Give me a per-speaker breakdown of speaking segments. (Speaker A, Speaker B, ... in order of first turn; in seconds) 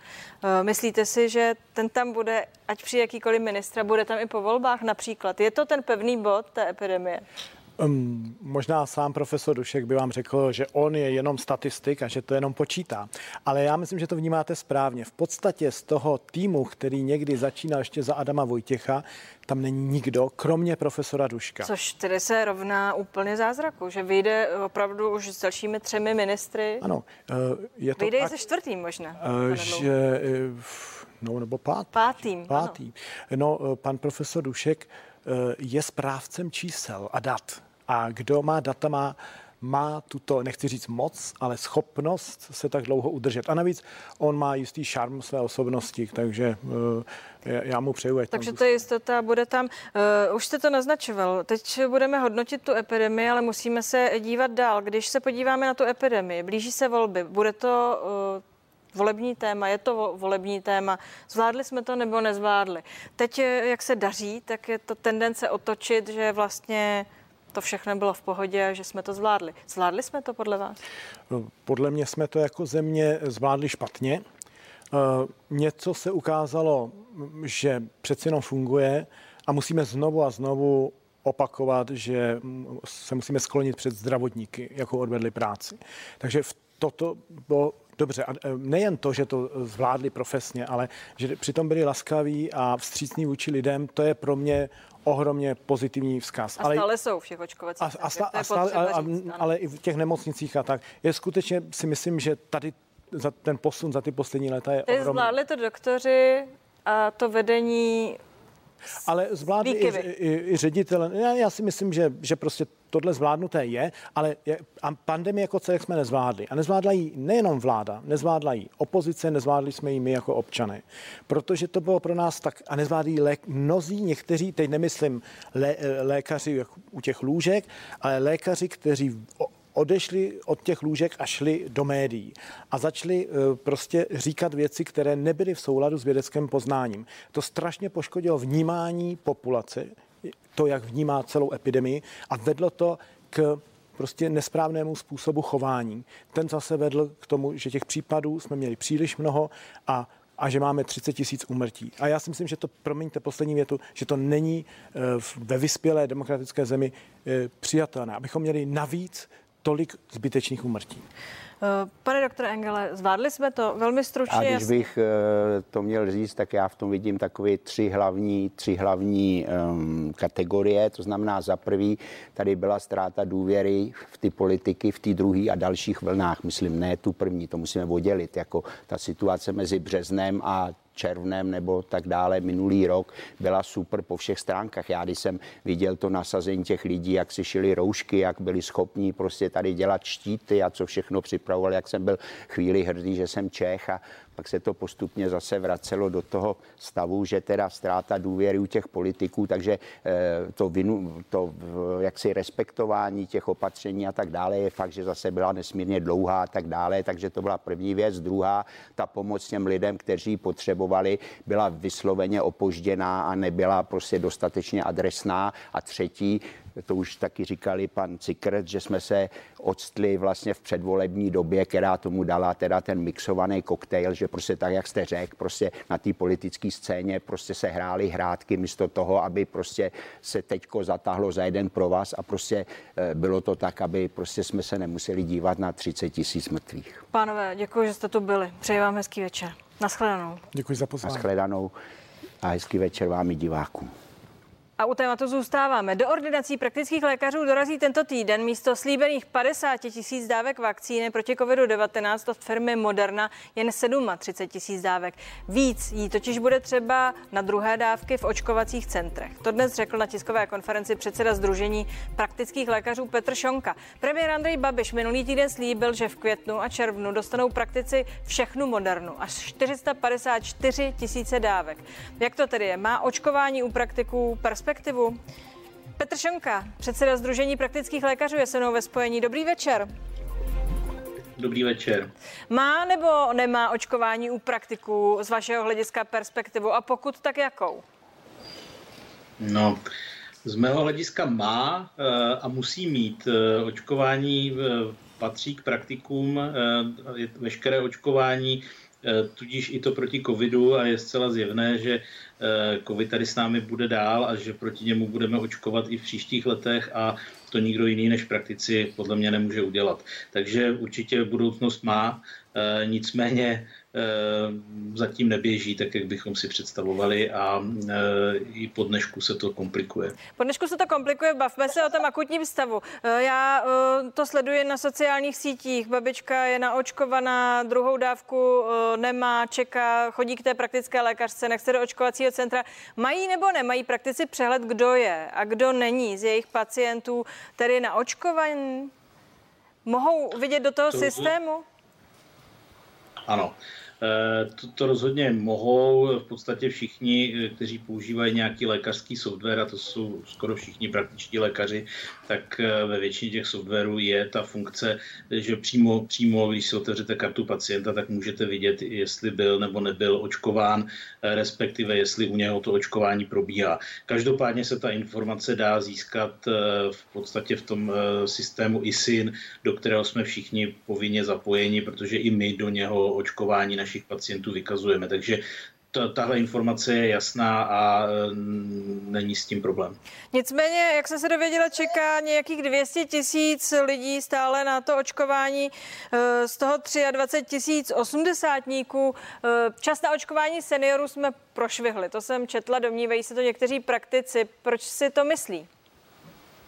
Speaker A: 0.4-7.2, 21.6-26.8, 28.0-29.9, 31.9-32.8, 48.3-58.4, 58.9-70.8, 96.6-99.5, 104.9-108.2, 109.6-110.0, 161.6-164.8, 237.1-240.4, 244.8-275.2, 276.0-279.9, 282.5-287.8, 320.4-338.9, 339.8-341.6, 380.3-395.7
Speaker B: 7.8-21.7, 26.8-28.3, 29.2-48.8, 71.3-74.2, 74.9-96.8, 97.8-105.3, 109.0-161.0, 240.5-241.3
Speaker C: 164.3-237.0, 241.0-241.7, 242.4-243.9
Speaker D: 281.4-282.1, 289.4-289.8, 290.4-320.2, 340.9-341.3, 343.3-380.0